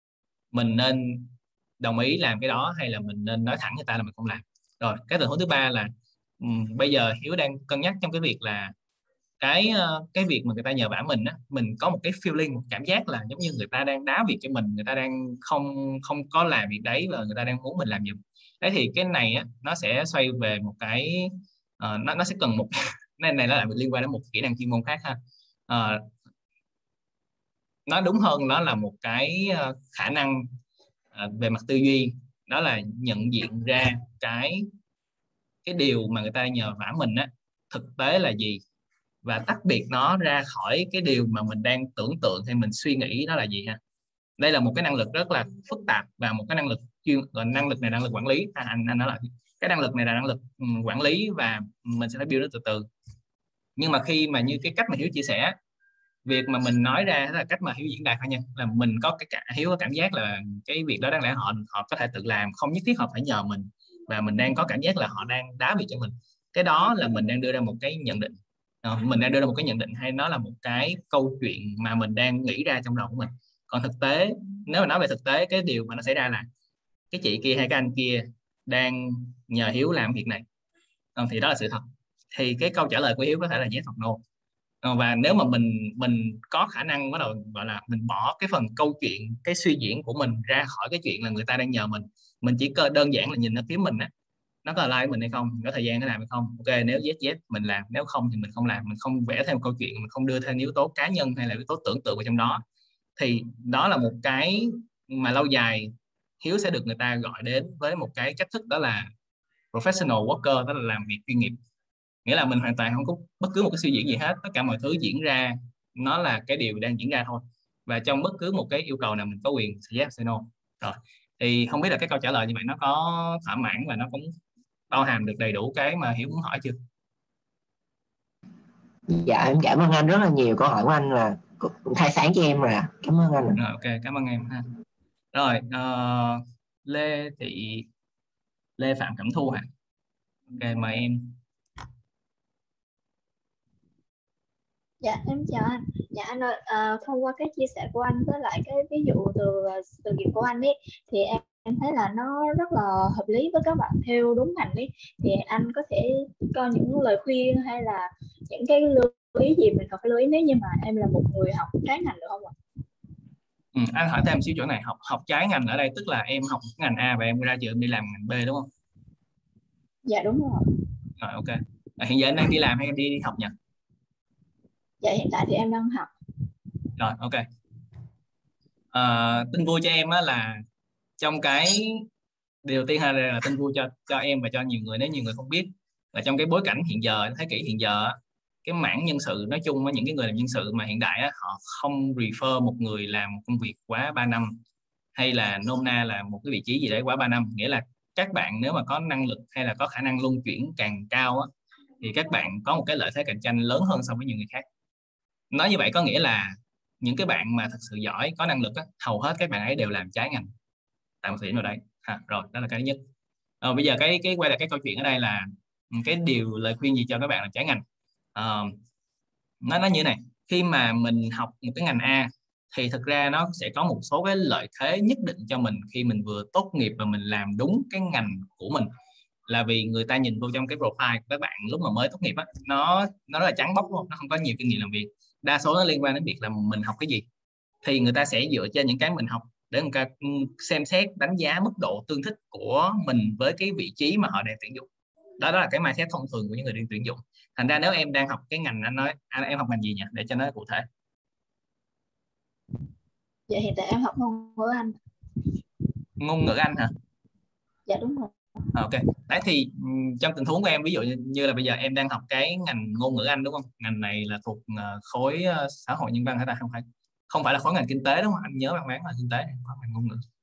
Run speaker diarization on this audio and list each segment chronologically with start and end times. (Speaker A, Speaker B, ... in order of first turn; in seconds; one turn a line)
Speaker A: 0.5-8.7
Speaker A: 9.4-26.1
Speaker A: 27.9-30.5
Speaker A: 31.1-34.7
Speaker A: 35.6-38.6
Speaker A: 39.2-43.8
Speaker A: 44.4-52.9
Speaker A: 53.8-55.5
Speaker A: 56.2-76.5
Speaker A: 77.1-80.4
Speaker A: 81.2-81.8
Speaker A: 82.3-84.2
Speaker A: 84.8-94.1
Speaker A: 94.6-102.6
Speaker A: 103.2-109.1
Speaker A: 109.7-111.6
Speaker A: 112.2-124.3
Speaker A: 124.9-126.8
Speaker B: 129.1-133.6
Speaker A: 133.6-134.7
Speaker A: 135.3-137.8
Speaker A: 138.8-139.7
Speaker A: 140.5-141.4
Speaker C: 145.0-162.5
Speaker A: 163.7-168.7
Speaker C: 170.0-170.7
Speaker A: 171.2-173.5
Speaker C: 175.0-176.1
Speaker A: 177.0-177.4
Speaker A: 178.9-180.6
Speaker A: 181.2-182.1
Speaker A: 182.6-194.6
Speaker A: 195.1-201.5
Speaker A: 202.0-204.6
Speaker A: 205.5-210.5
Speaker A: 211.2-213.0
Speaker A: 213.6-217.8
Speaker A: 218.3-218.8
Speaker A: 219.6-228.9
Speaker A: 229.5-237.2
Speaker A: 237.8-244.9
Speaker A: 245.4-250.8
Speaker C: 253.5-254.9
Speaker A: 256.2-256.9
Speaker C: 257.9-258.3
Speaker A: 258.7-270.2